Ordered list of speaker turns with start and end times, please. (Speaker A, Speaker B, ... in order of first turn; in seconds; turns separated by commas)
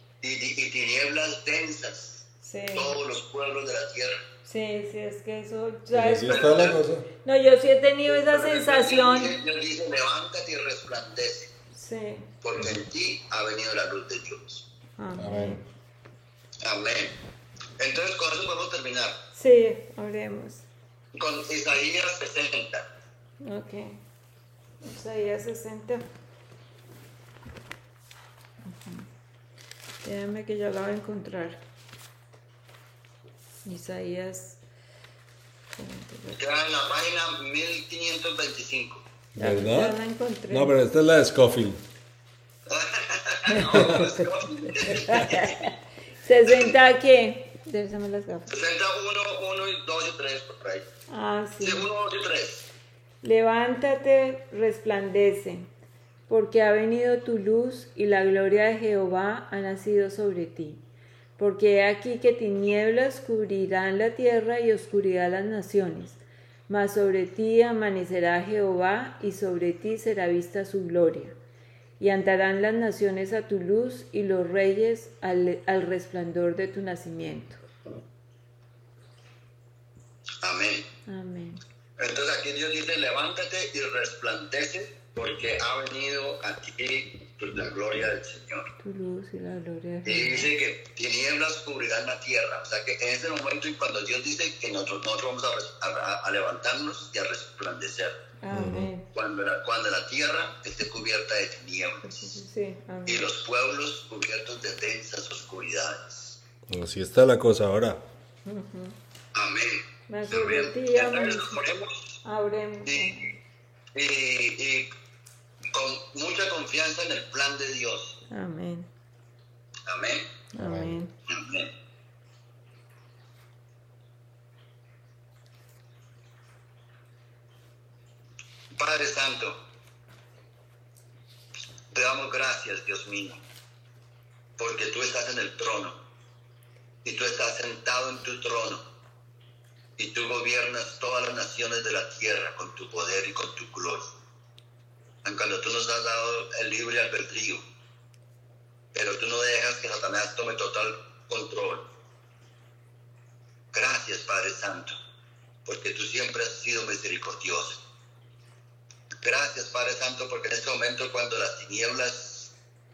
Speaker A: 0.2-4.2, Speaker B: 2.4-2.9, Speaker B: 4.5-6.7, Speaker C: 5.9-7.1, Speaker A: 6.2-6.8, Speaker B: 7.2-9.4, Speaker A: 8.1-11.5, Speaker B: 11.7-12.3, Speaker A: 12.4-14.6, Speaker C: 12.6-12.8, Speaker B: 15.0-15.6, Speaker C: 15.1-15.6, Speaker A: 16.6-17.1, Speaker A: 17.8-19.2, Speaker B: 19.3-20.6, Speaker A: 21.1-22.9, Speaker B: 23.4-24.0, Speaker B: 24.8-26.0, Speaker B: 28.6-29.0, Speaker B: 30.0-31.6, Speaker B: 33.6-34.6, Speaker B: 35.7-36.4, Speaker A: 36.4-39.0, Speaker C: 39.3-40.0, Speaker B: 39.4-40.8, Speaker C: 40.5-41.8, Speaker A: 42.7-45.7, Speaker B: 43.5-48.5, Speaker C: 43.7-44.1, Speaker A: 48.5-50.9, Speaker B: 51.1-51.9, Speaker A: 51.6-52.6, Speaker B: 53.2-55.7, Speaker B: 56.3-60.8, Speaker B: 61.4-71.4, Speaker B: 72.0-77.6, Speaker A: 80.4-80.9, Speaker B: 81.1-81.6, Speaker A: 82.0-88.7, Speaker B: 88.8-90.5, Speaker A: 90.0-98.2, Speaker B: 98.4-99.0, Speaker C: 98.5-98.9, Speaker A: 99.1-102.3, Speaker B: 102.0-103.2, Speaker A: 103.1-106.4, Speaker C: 106.7-108.0, Speaker B: 108.4-109.0, Speaker A: 109.3-112.2, Speaker B: 110.1-111.6, Speaker B: 112.2-113.3, Speaker A: 112.8-113.2, Speaker A: 113.9-114.9, Speaker A: 115.7-118.2, Speaker B: 118.3-118.9, Speaker A: 119.9-120.3, Speaker B: 120.5-121.1, Speaker C: 120.6-121.0, Speaker A: 121.3-121.7, Speaker A: 128.8-129.6, Speaker A: 131.9-133.4, Speaker A: 134.6-136.0, Speaker A: 137.0-138.8, Speaker A: 140.0-144.1, Speaker A: 145.2-147.6, Speaker A: 148.9-151.8, Speaker A: 153.7-155.0, Speaker A: 155.7-157.8, Speaker A: 159.2-162.5